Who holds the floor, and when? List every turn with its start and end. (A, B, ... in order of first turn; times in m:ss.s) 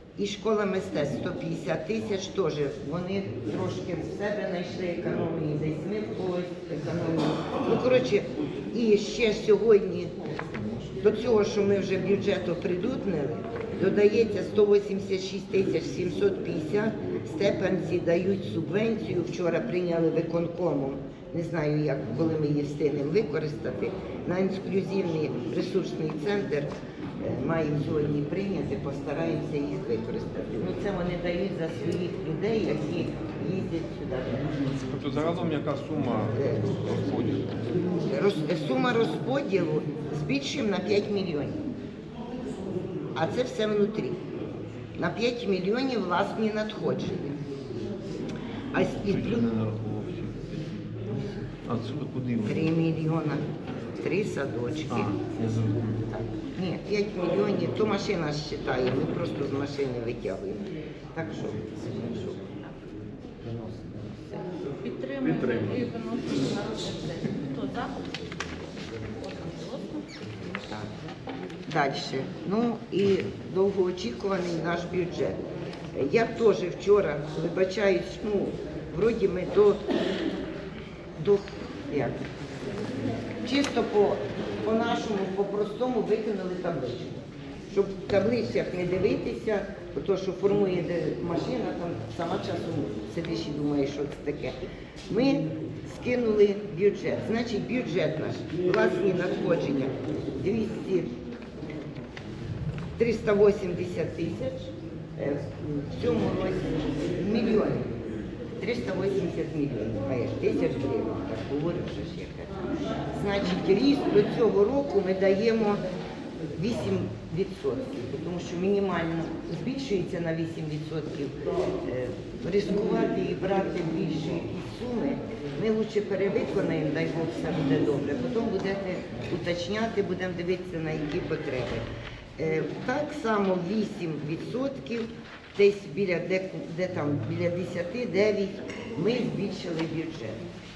0:00.2-0:10.1 A
0:11.0-0:34.5 A
0:34.9-0:37.6 B
0:36.4-0:36.7 A
0:38.1-0:41.6 A
0:43.1-0:44.2 A
0:45.0-0:47.4 A
0:48.7-0:49.6 A
0:49.0-0:50.8 B
0:51.7-0:52.7 B
0:52.4-0:53.4 A
0:54.0-0:55.3 A
0:54.9-0:56.0 B
0:56.1-1:00.6 A
1:01.1-1:02.5 A
1:03.5-1:04.4 A
1:04.8-1:08.0 C
1:05.3-1:05.7 B
1:09.2-1:10.0 C
1:11.7-1:15.4 A
1:15.9-1:19.8 A
1:21.2-1:22.2 A
1:23.4-1:34.6 A
1:35.1-1:41.1 A
1:43.0-1:47.9 A
1:48.6-1:52.6 A
1:53.1-1:55.8 A
1:56.6-2:11.8 A
2:12.4-2:20.4 A